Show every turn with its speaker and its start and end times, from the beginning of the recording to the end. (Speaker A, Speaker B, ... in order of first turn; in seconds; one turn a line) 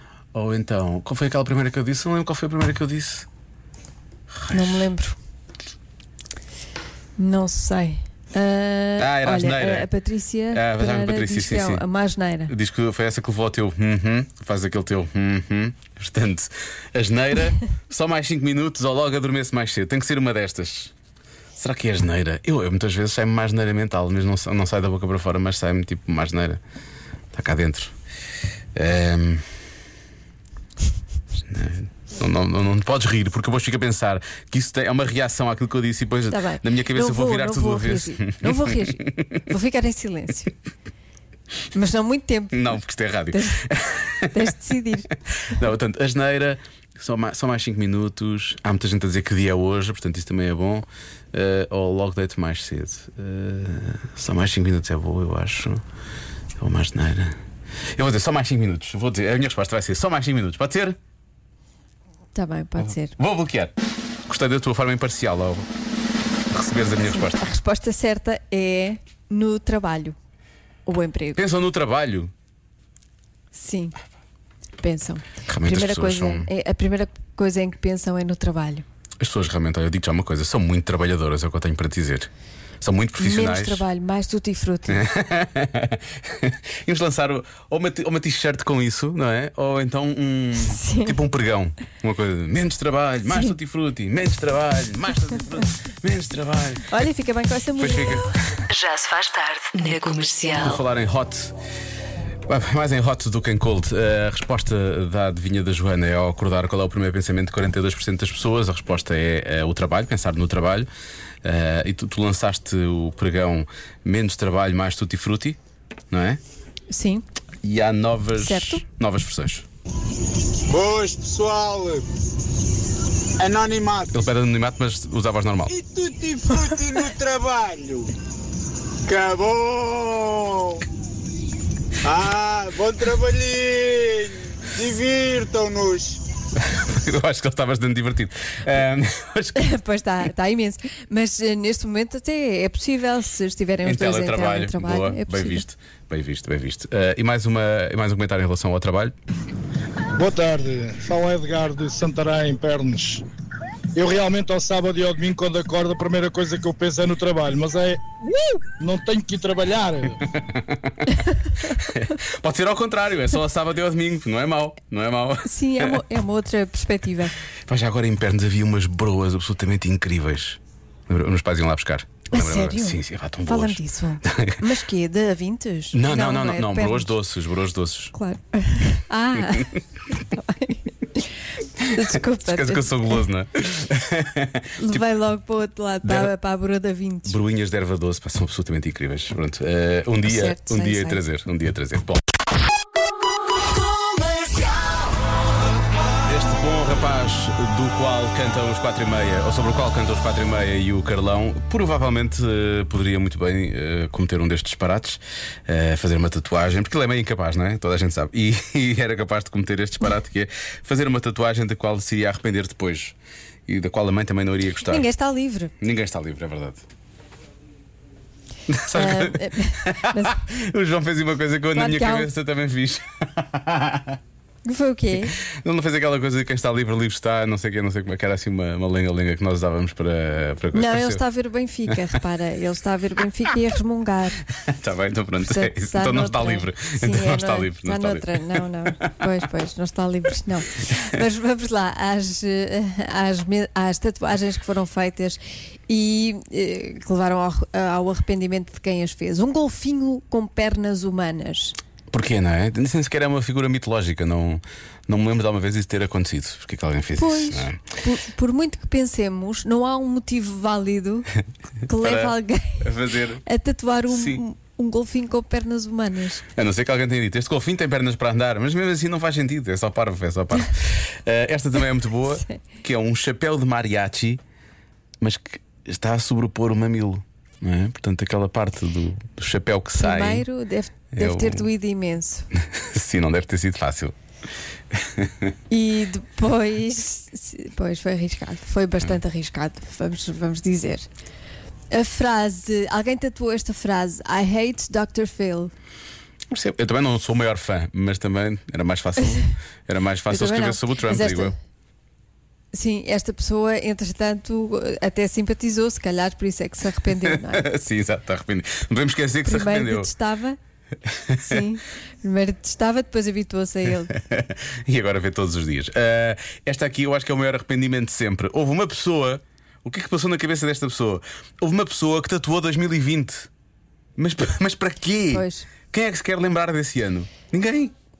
Speaker A: 0.3-3.3
Speaker A: 4.3-4.9
Speaker B: 4.5-5.2
Speaker B: 7.2-12.5
Speaker A: 9.0-9.9
Speaker A: 10.5-11.8
Speaker A: 12.5-20.9
Speaker A: 21.6-26.6
Speaker A: 27.3-27.9
Speaker A: 28.7-29.5
Speaker A: 31.4-39.4
Speaker B: 36.3-40.5
Speaker B: 41.7-42.8
Speaker A: 42.5-44.5
Speaker B: 43.3-43.6
Speaker B: 44.3-45.1
Speaker A: 45.4-55.8
Speaker A: 56.6-57.4
Speaker A: 57.9-61.0
Speaker B: 62.3-63.1
Speaker A: 62.8-63.7
Speaker A: 64.3-65.7
Speaker A: 66.5-67.5
Speaker B: 67.0-70.2
Speaker B: 70.8-71.4
Speaker A: 71.3-72.3
Speaker B: 73.5-74.0
Speaker B: 74.8-78.8
Speaker A: 75.5-76.5
Speaker A: 79.2-82.3
Speaker A: 82.8-83.8
Speaker B: 83.2-85.0
Speaker A: 84.9-97.0
Speaker B: 90.6-91.2
Speaker B: 96.9-98.3
Speaker A: 97.8-98.3
Speaker C: 98.7-100.8
Speaker A: 100.6-101.5
Speaker A: 102.5-110.9
Speaker A: 111.4-115.6
Speaker A: 116.1-116.4
Speaker B: 116.9-117.2
Speaker A: 117.6-119.7
Speaker B: 118.3-118.8
Speaker D: 120.7-122.0
Speaker D: 123.4-124.2
Speaker A: 124.1-125.7
Speaker D: 125.7-128.1
Speaker D: 129.1-130.8
Speaker D: 132.0-136.2
Speaker A: 136.6-139.7
Speaker B: 139.6-145.7
Speaker A: 143.8-149.2
Speaker E: 150.1-153.2
Speaker E: 153.9-160.2
Speaker A: 160.3-161.0
Speaker A: 161.7-166.0
Speaker B: 165.4-167.3
Speaker A: 167.7-174.7
Speaker B: 172.3-177.1
Speaker A: 175.9-178.1
Speaker B: 178.1-183.2
Speaker A: 179.3-179.7
Speaker A: 182.0-185.0
Speaker B: 184.8-187.3
Speaker A: 186.0-186.3
Speaker A: 187.2-192.2
Speaker B: 190.2-191.2
Speaker C: 194.2-194.7
Speaker A: 196.2-213.2
Speaker A: 213.7-215.0
Speaker B: 214.8-215.7
Speaker A: 215.8-216.8
Speaker A: 218.7-224.2
Speaker B: 218.9-220.4
Speaker B: 221.7-222.3
Speaker B: 224.6-225.3
Speaker A: 225.4-231.2
Speaker B: 230.7-234.4
Speaker A: 234.5-238.7
Speaker B: 235.4-251.8
Speaker A: 252.1-257.8
Speaker B: 257.2-261.3
Speaker B: 261.9-266.4
Speaker A: 261.9-263.4
Speaker A: 264.1-264.4
Speaker A: 266.5-274.4
Speaker A: 275.2-280.4
Speaker B: 280.0-282.5
Speaker A: 281.1-281.7
Speaker A: 282.5-284.1
Speaker A: 284.9-285.5
Speaker B: 285.7-291.1
Speaker B: 291.9-295.7
Speaker A: 296.5-301.6
Speaker B: 300.3-301.6
Speaker B: 302.7-307.7
Speaker A: 307.2-310.1
Speaker B: 309.4-310.6
Speaker A: 311.0-311.6
Speaker B: 311.4-314.1
Speaker A: 314.1-323.5
Speaker A: 324.1-327.9
Speaker B: 325.3-325.7